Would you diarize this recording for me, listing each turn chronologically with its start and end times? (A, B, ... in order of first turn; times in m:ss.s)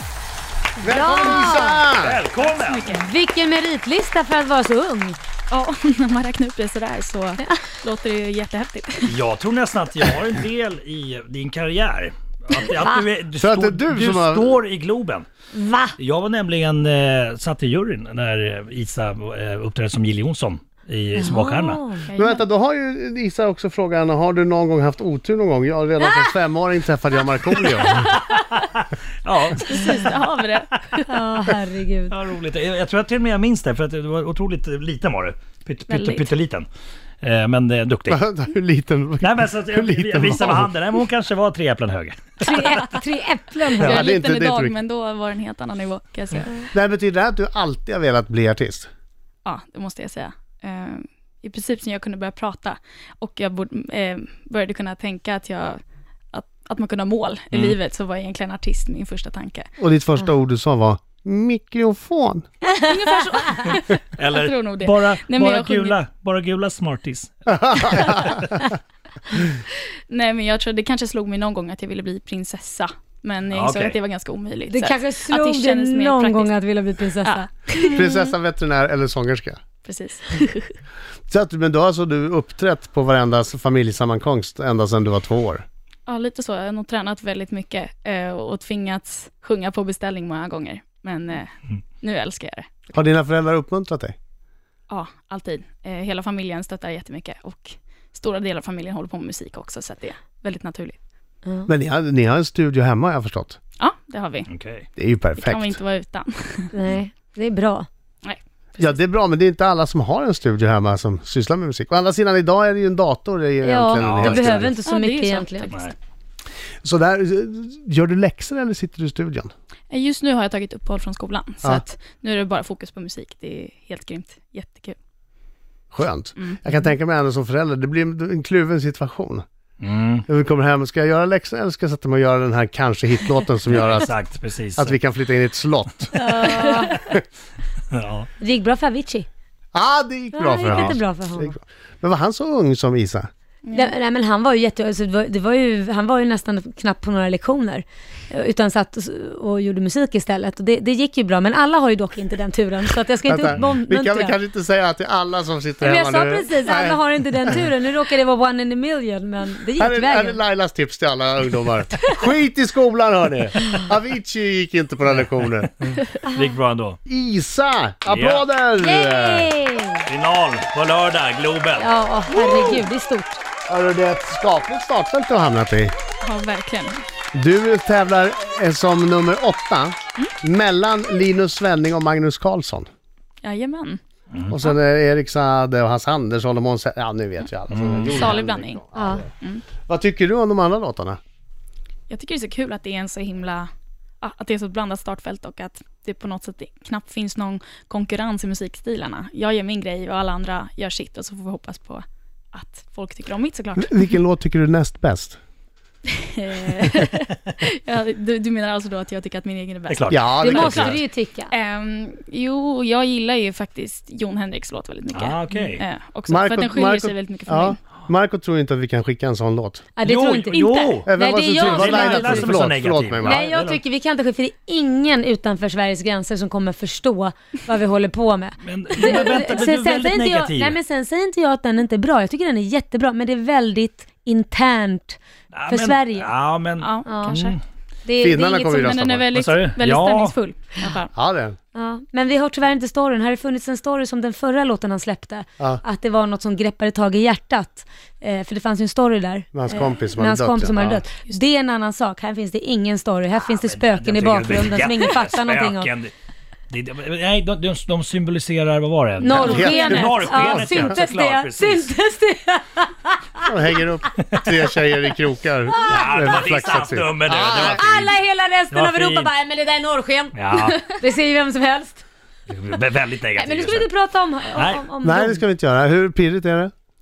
0:00.8-0:01.9 A
0:00.8-0:02.2 B
0:01.9-0:02.9 C
0:02.4-0:03.1 D
0:02.9-0:05.2 A
0:05.5-0:09.1 D
0:09.1-0:15.3 C
0:12.6-0:13.1 A
0:13.4-0:14.6 B
0:15.5-0:16.0 A
0:16.0-0:21.8 C
0:21.2-0:22.1 A
0:22.1-0:22.4 D
0:22.2-0:28.2 B
0:28.1-0:28.6 D
0:28.8-0:30.1 C
0:29.5-0:31.1 D
0:31.1-0:32.2 A
0:32.1-0:36.7 C
0:35.9-0:36.3 D
0:37.2-0:38.2 C
0:38.1-0:40.7 B
0:39.2-0:42.5 C
0:42.4-0:44.0 A
0:43.8-0:46.7 D
0:43.8-0:44.0 C
0:43.8-0:44.8 B
0:46.7-0:48.9 B
0:49.4-0:55.8 D
0:56.3-0:59.7 D
0:59.8-1:02.5 B
1:02.6-1:06.0 D
1:04.2-1:08.6 C
1:07.5-1:08.4 B
1:10.1-1:16.5 D
1:13.5-1:14.0 C
1:14.7-1:18.3 A
1:17.2-1:17.9 D
1:17.9-1:19.6 B
1:19.8-1:20.7 D
1:21.3-1:25.6 B
1:26.1-1:33.1 D
1:32.9-1:34.2 B
1:34.9-1:41.0 D
1:41.7-1:43.6 B
1:43.8-1:44.5 D
1:44.5-1:44.9 C
1:45.0-1:45.8 B
1:45.4-1:46.7 D
1:46.7-1:47.9 A
1:48.2-1:49.0 D
1:48.8-1:54.8 B
1:53.6-1:55.7 A
1:54.0-1:54.7 C
1:54.8-1:55.9 D
1:56.8-1:59.5 B
1:59.9-2:05.0 D
2:05.9-2:09.4 B
2:09.8-2:10.2 C
2:10.3-2:14.2 B
2:13.7-2:15.0 C
2:14.8-2:16.2 B
2:16.1-2:17.0 A
2:17.9-2:18.3 C
2:18.4-2:19.3 A
2:19.7-2:23.3 B
2:20.3-2:21.6 A
2:23.7-2:34.4 A
2:33.3-2:37.6 B
2:35.8-2:40.4 A
2:39.8-2:45.7 B
2:45.8-2:47.0 C
2:46.2-2:46.5 A
2:47.1-2:49.5 B
2:48.1-2:48.4 C
2:48.8-2:50.0 A
2:50.1-2:51.9 C
2:51.8-2:53.4 A
2:52.3-2:52.8 B
2:53.7-2:55.9 B
2:56.2-2:57.0 D
2:57.3-3:02.9 B
3:03.4-3:04.0 D
3:04.3-3:04.6 C
3:04.5-3:09.3 B
3:07.7-3:08.4 C
3:08.1-3:08.8 D
3:09.0-3:09.3 A
3:09.9-3:11.2 B
3:12.1-3:13.7 D
3:14.2-3:24.0 D
3:23.8-3:25.4 B
3:26.3-3:30.9 D
3:29.9-3:31.0 C
3:30.1-3:31.0 B
3:30.4-3:31.5 A
3:31.5-3:37.8 D
3:35.1-3:35.8 C
3:36.3-3:39.9 B
3:40.0-3:42.6 A
3:40.0-3:43.8 C
3:41.1-3:43.4 B
3:43.2-3:56.3 A
3:48.6-3:50.8 C
3:55.5-3:57.6 C
3:56.8-3:57.6 D
3:57.1-3:57.4 A
3:58.0-3:58.9 A
3:58.2-3:59.3 B
3:58.8-4:01.1 D
3:59.3-4:00.4 C
4:01.2-4:01.6 B
4:01.8-4:15.9 A
4:09.5-4:11.0 B
4:09.7-4:10.0 D
4:13.4-4:16.1 C
4:16.7-4:21.9 C
4:19.2-4:23.5 A
4:19.3-4:21.0 B
4:23.5-4:27.9 B
4:25.7-4:26.6 A
4:25.9-4:28.2 C
4:27.6-4:32.0 A
4:28.7-4:29.3 C
4:30.4-4:30.8 C
4:32.5-4:33.9 C
4:33.4-4:35.4 A
4:34.5-4:34.9 C
4:35.0-4:36.7 B